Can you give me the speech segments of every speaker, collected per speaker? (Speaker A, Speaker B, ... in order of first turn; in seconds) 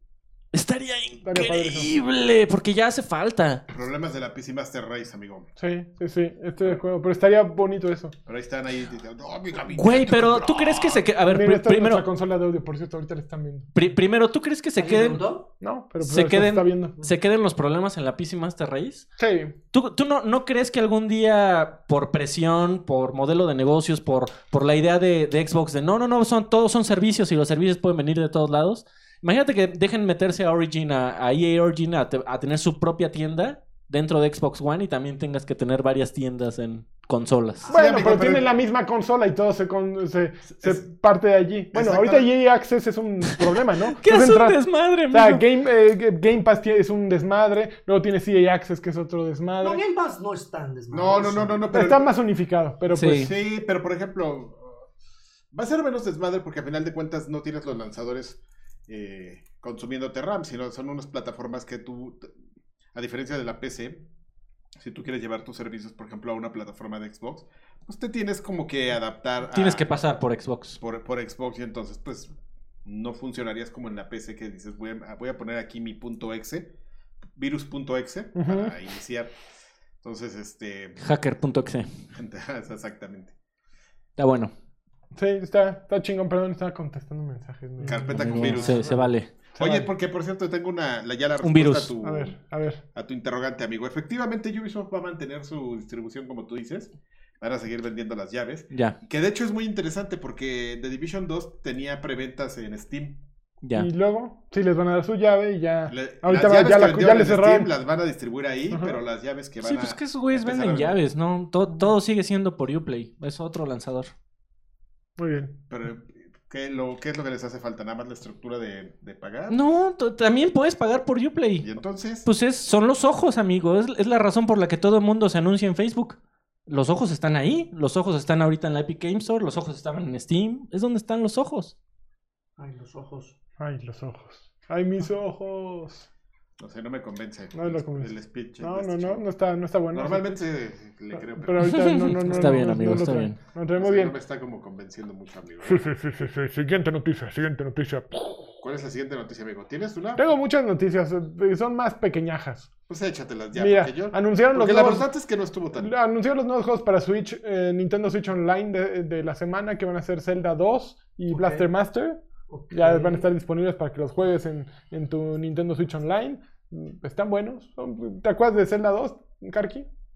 Speaker A: 0.5-3.6, 9.7-12.0, 13.7-15.2, 16.0-19.1, 19.7-37.6, 43.3-45.4, 52.9-53.3, 69.5-70.8, 81.0-81.9, 84.2-84.5, 88.1-89.3, 91.4-91.9, 103.6-103.9, 109.6-114.1, 119.5-121.7, 122.2-131.7, 141.6-143.3
Speaker B: 1.2-1.9, 5.6-8.1, 11.2-13.7, 15.6-16.9, 19.2-19.5, 37.7-44.6, 45.1-49.8, 51.7-53.3, 78.3-78.7, 85.2-88.6, 89.6-89.9, 92.0-92.8, 103.7-107.7, 108.7-109.0, 115.2-115.5, 133.6-136.1, 137.5-140.4, 141.4-144.1, 145.6-148.5, 150.2-152.7, 153.5-155.1, 155.8-162.2, 162.7-169.9
Speaker C: 3.7-5.5, 8.2-11.0, 37.7-38.5, 41.7-42.3, 50.9-52.1, 53.0-54.8, 55.5-62.3, 62.9-64.0, 64.8-69.9, 70.8-72.3, 72.8-76.7, 77.3-79.3, 80.0-81.0, 82.1-83.3, 87.8-88.9, 89.5-92.3, 92.9-103.2, 105.9-111.0, 115.7-119.6, 121.6-122.3, 136.6-139.2, 139.9-141.8, 143.8-145.8, 148.6-150.2, 152.9-155.9
Speaker D: 14.8-15.5, 37.6-38.1, 49.6-51.6, 88.3-89.0, 132.6-133.3, 161.3-161.7, 162.5-163.2